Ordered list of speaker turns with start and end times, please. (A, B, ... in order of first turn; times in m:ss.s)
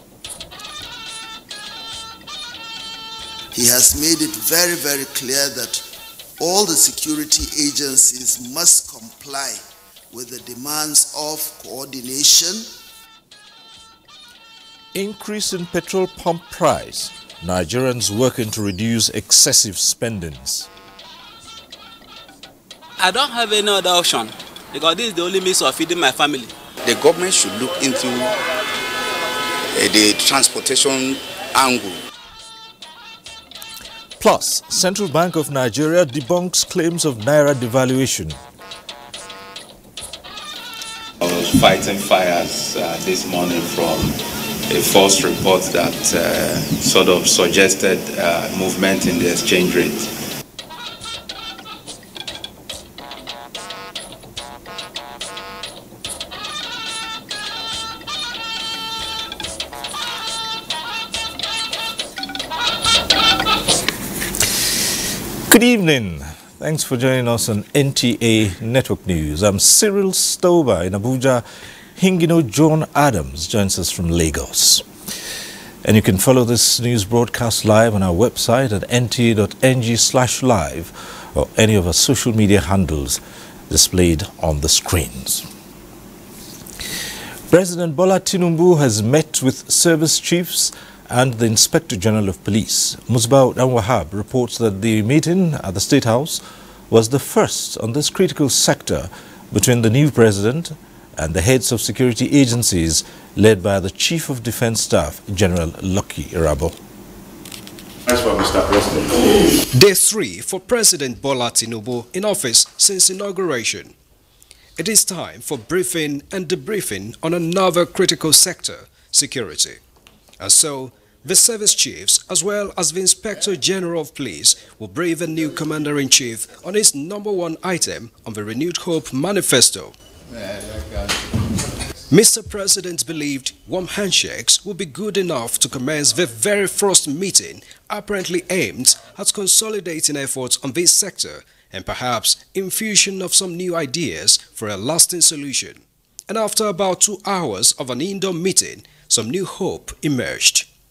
0:03.5-0:05.8 A
0:06.4-0:12.7 A
0:14.9-0:20.7 B
0:23.0-0:26.5 C
0:26.8-0:28.3 D
0:29.7-0:32.0 D
0:34.2-0:38.4 B
0:41.2-0:44.2 E
0:44.7-0:50.1 E
1:05.5-1:11.4 B
1:12.0-1:14.8 B
1:15.8-1:25.4 B
1:27.5-1:46.8 B
1:48.1-1:49.1 E
1:49.7-1:54.0 F
1:54.8-1:59.8 F
2:00.4-2:10.0 F
2:12.1-2:30.7 F